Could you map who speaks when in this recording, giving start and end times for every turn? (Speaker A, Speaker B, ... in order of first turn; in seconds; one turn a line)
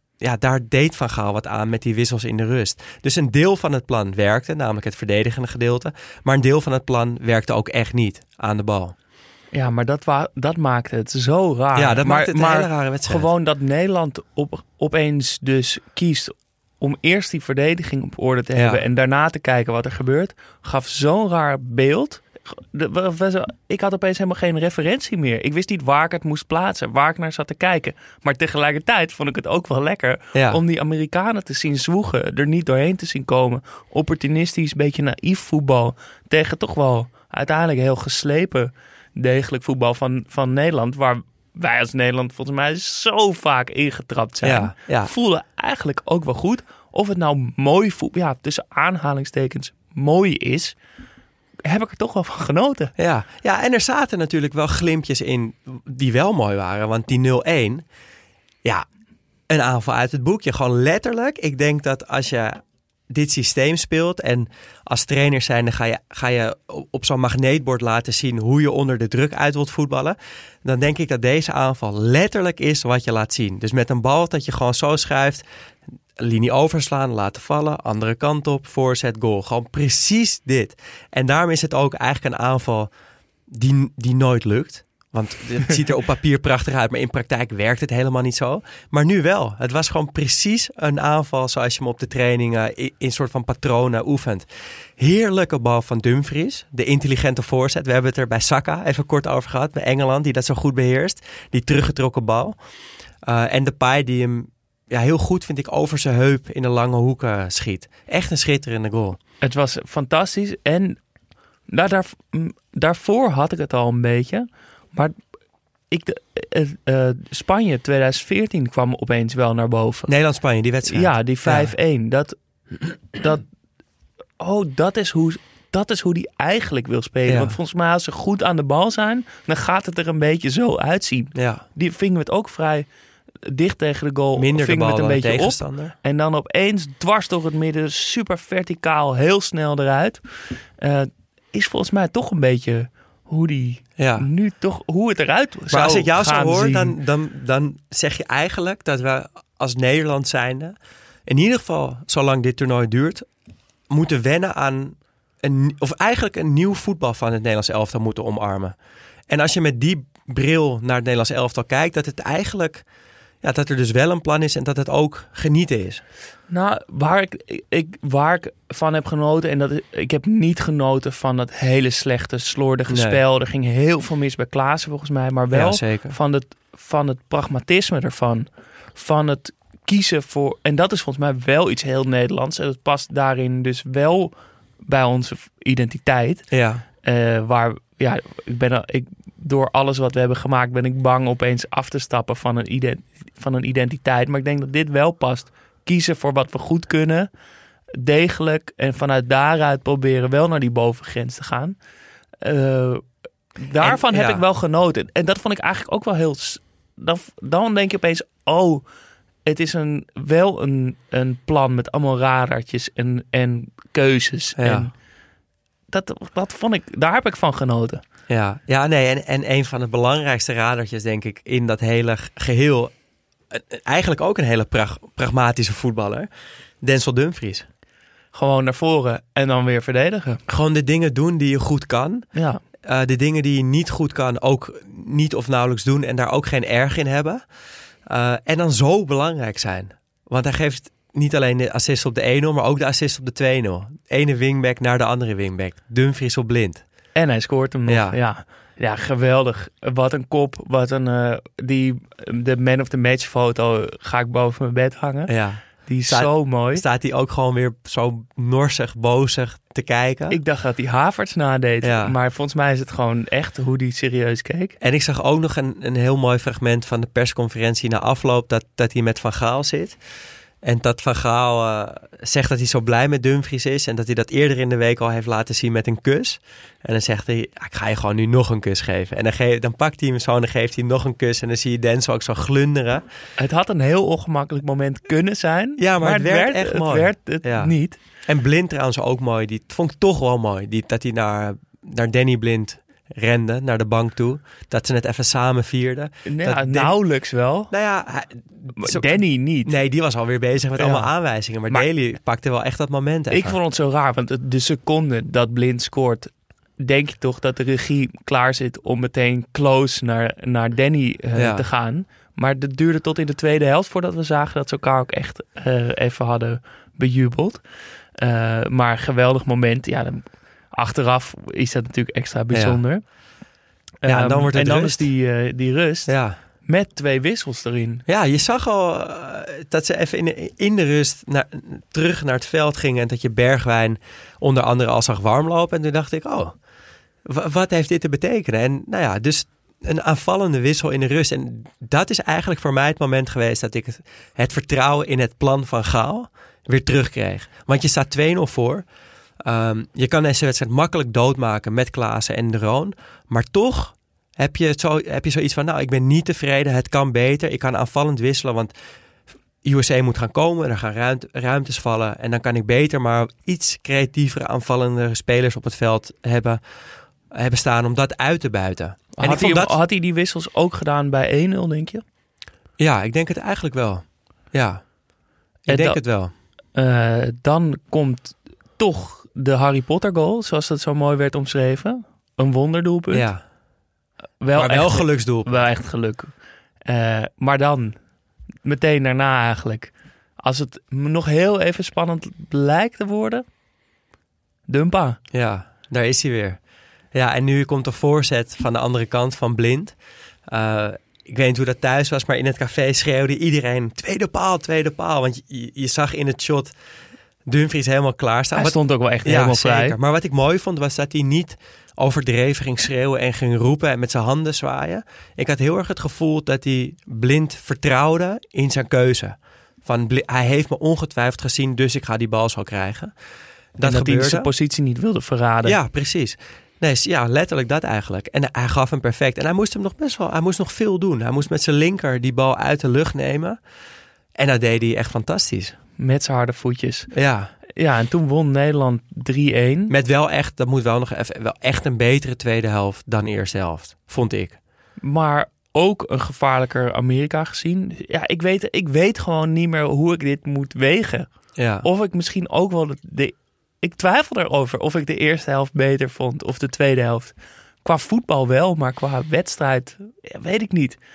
Speaker A: 0.2-8.9
Speaker B: 9.5-50.8
Speaker A: 11.8-13.3
Speaker A: 18.6-18.8
Speaker A: 30.3-30.6
Speaker A: 44.4-45.1
Speaker B: 51.7-52.9
Speaker A: 53.0-57.9
Speaker A: 59.5-75.5
Speaker A: 76.2-82.9
Speaker A: 83.5-94.5
Speaker A: 95.0-102.6
Speaker A: 103.2-109.2
Speaker B: 109.4-111.0
Speaker B: 111.7-115.2
Speaker B: 115.9-120.1
Speaker A: 120.1-121.7
Speaker B: 120.9-122.4
Speaker B: 123.1-123.4
Speaker B: 124.4-132.9
Speaker A: 127.3-127.6
Speaker A: 131.3-131.6
Speaker B: 133.4-147.0
Speaker A: 134.4-135.9
Speaker A: 144.0-144.3
Speaker A: 145.7-153.3
Speaker A: 153.9-158.8
Speaker A: 159.3-162.8
Speaker A: 163.4-166.0
Speaker B: 166.5-184.3
Speaker A: 172.9-173.2
Speaker A: 175.5-176.2
Speaker B: 184.8-186.5
Speaker A: 186.5-186.8
Speaker B: 187.0-197.3
Speaker B: 198.0-201.8
Speaker B: 202.4-203.0
Speaker B: 203.6-208.8
Speaker A: 203.8-204.4
Speaker B: 209.4-214.9
Speaker A: 214.6-214.9
Speaker B: 215.9-218.0
Speaker A: 218.3-222.9
Speaker A: 223.5-226.3
Speaker A: 226.8-227.7
Speaker B: 228.3-230.4
Speaker A: 230.5-232.3
Speaker B: 232.3-232.6
Speaker A: 232.8-237.4
Speaker A: 238.1-246.8
Speaker B: 247.2-256.8
Speaker A: 247.9-248.2
Speaker A: 255.3-260.4
Speaker B: 260.3-264.8
Speaker A: 261.8-262.1
Speaker A: 264.8-270.0
Speaker A: 270.6-283.0
Speaker B: 283.4-288.0
Speaker A: 285.8-297.0
Speaker B: 296.3-297.7
Speaker A: 297.7-303.6
Speaker B: 298.8-299.7
Speaker B: 300.8-301.1
Speaker B: 303.3-317.6
Speaker A: 311.4-311.6
Speaker B: 318.2-323.1
Speaker A: 322.5-322.8
Speaker B: 324.0-328.0
Speaker A: 324.1-325.1
Speaker A: 326.1-326.4
Speaker A: 328.1-336.6
Speaker A: 337.2-348.9
Speaker A: 349.4-358.7
Speaker A: 359.6-366.6
Speaker A: 367.3-369.8
Speaker B: 369.2-372.0
Speaker A: 372.8-374.9
Speaker A: 375.6-376.3
Speaker B: 375.7-376.0
Speaker B: 376.7-383.3
Speaker A: 383.1-383.4
Speaker B: 384.4-386.3
Speaker A: 384.6-385.7
Speaker B: 386.9-388.0
Speaker B: 388.6-393.4
Speaker B: 394.7-395.2
Speaker A: 395.3-396.6
Speaker A: 397.1-406.7
Speaker A: 407.5-423.1
Speaker B: 408.6-410.0
Speaker A: 423.8-424.5
Speaker B: 423.8-425.8
Speaker A: 425.6-433.6
Speaker A: 434.4-435.8
Speaker B: 436.0-437.1
Speaker A: 437.1-437.5
Speaker B: 437.8-439.9
Speaker A: 439.9-444.6
Speaker B: 445.0-451.3
Speaker A: 451.6-451.9
Speaker B: 451.8-461.0